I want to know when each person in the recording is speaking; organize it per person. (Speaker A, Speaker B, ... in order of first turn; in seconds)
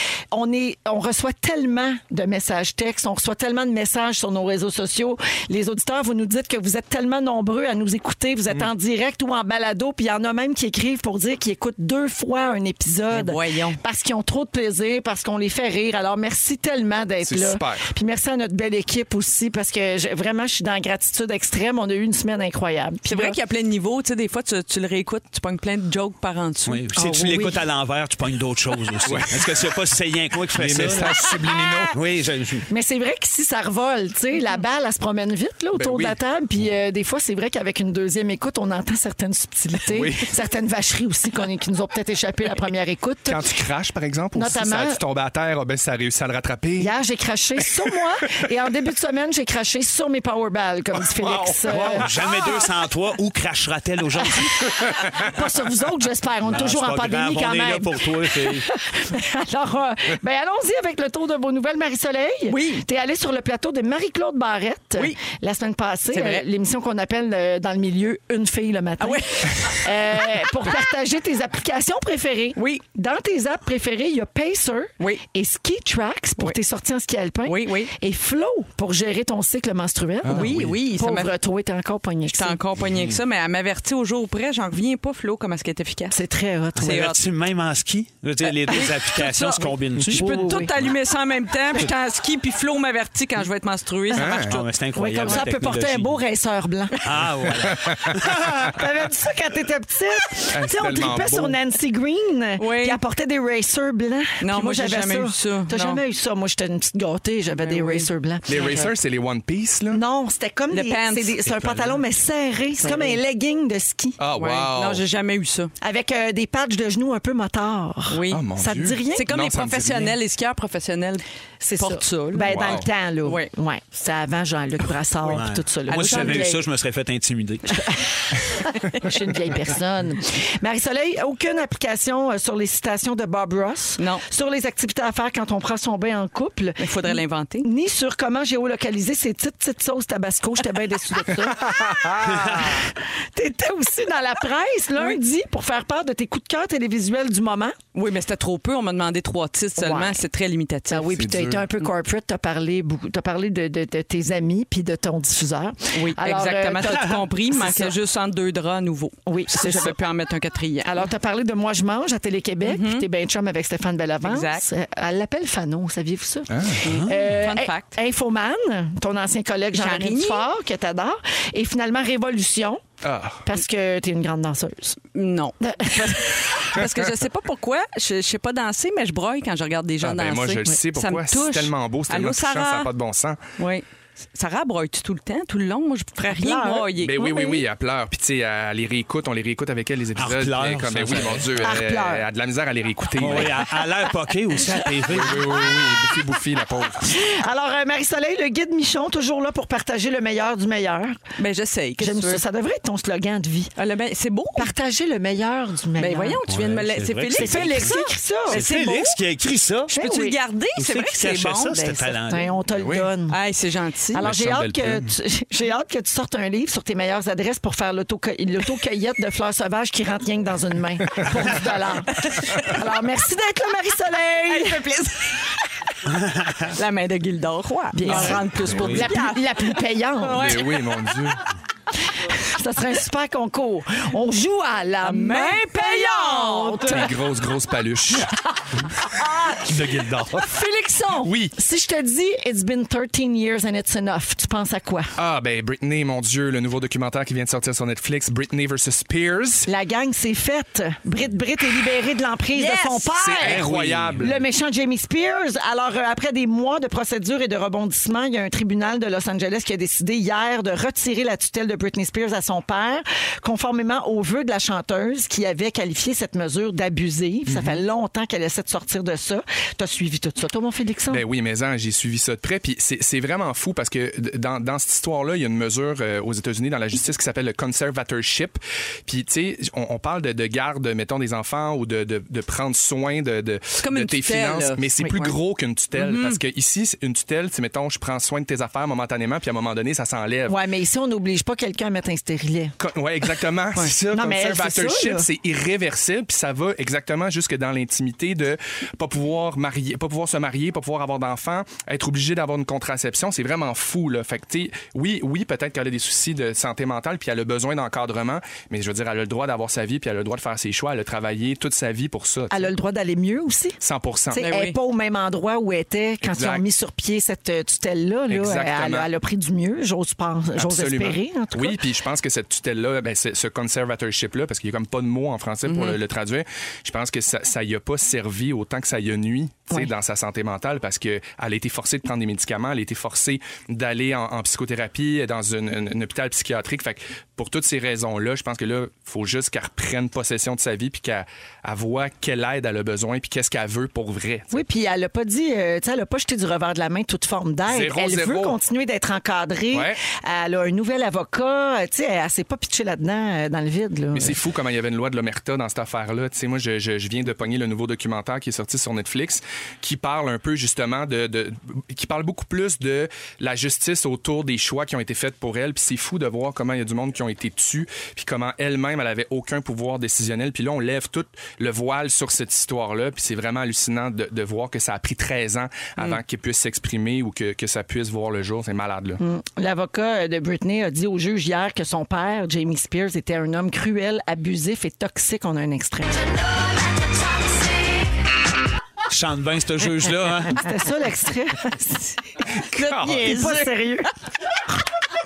Speaker A: 0.3-23.4, 26.9-27.6, 32.7-43.5, 44.3-45.0, 46.8-52.1, 54.7-82.6, 86.1-87.1, 90.1-90.7, 95.0-97.0, 98.6-108.9, 109.9-114.2, 115.8-119.3, 121.6-126.6, 128.3-141.6, 142.6-147.7, 149.8-150.2, 150.9-157.9, 159.2-159.9, 160.8-166.5, 167.0-172.8, 173.4-175.0, 175.6-176.8, 186.3-186.9, 191.6-192.2, 197.0-201.2, 202.0-203.7, 204.6-206.4, 207.3-208.6, 209.9-210.3, 211.7-213.4, 214.1-224.8, 227.9-230.6, 232.3-237.1, 239.1-239.7, 240.4-245.2, 249.7-253.6, 254.2-271.2, 290.5-292.7, 294.1-295.2, 312.5-321.8, 344.5-354.4, 379.2-386.2, 390.5-392.1, 392.9-394.1
Speaker B: 13.1-13.8, 23.1-26.8, 62.5-62.8, 66.1-66.4, 69.0-70.4, 72.5-72.8, 77.5-77.9, 80.3-81.3, 82.3-86.2, 86.8-87.2, 88.7-94.7, 102.6-103.0, 104.4-106.0, 107.6-108.8, 110.7-111.4, 112.8-113.2, 114.3-115.7, 118.1-118.4, 119.1-121.2, 121.8-122.6, 125.9-126.5, 134.0-134.2, 136.8-137.7, 147.9-151.1, 155.9-161.0, 162.6-163.1, 164.2-164.7, 166.8-167.9, 169.7-170.5, 175.1-182.9, 183.6-187.6, 201.4-202.4, 203.8-204.7, 206.0-209.2, 210.0-211.8, 213.3-214.2, 222.3-222.7, 224.5-225.4, 226.7-230.8, 235.0-237.1, 252.5-253.6, 283.8-285.4, 285.9-286.4, 314.4-314.8, 325.7-326.0, 392.7-393.7
Speaker C: 17.2-17.9, 29.0-29.4, 30.5-32.0, 35.7-36.2, 39.9-40.3, 43.3-46.9, 51.1-52.6, 80.2-80.7, 94.1-94.5, 97.6-98.1, 100.5-101.6, 108.5-110.0, 114.2-115.0, 118.3-120.1, 122.4-122.9, 141.7-142.6, 151.1-151.7, 166.5-166.8, 173.0-173.4, 180.0-183.4, 187.0-193.6, 195.0-197.0, 212.7-213.1, 214.2-215.1, 228.1-229.1, 230.4-231.4, 236.9-238.3, 239.6-240.6, 241.2-241.5, 245.2-249.7, 253.2-254.4, 267.5-267.8, 271.1-290.6, 292.8-312.6, 313.8-314.4, 316.2-316.6, 318.3-319.1, 320.5-344.6, 347.7-348.6, 349.7-350.0, 354.1-379.2, 392.7-393.5
Speaker D: 26.6-32.7, 51.7-54.8, 56.4-58.7, 86.8-90.9, 94.4-96.2, 97.0-98.8, 111.4-112.0, 125.2-127.9, 142.2-142.7, 166.8-167.1, 190.2-191.8, 193.2-195.7, 206.5-207.9, 208.5-209.9, 210.8-212.5, 226.1-226.7, 228.1-229.0, 253.4-254.3, 389.1-390.6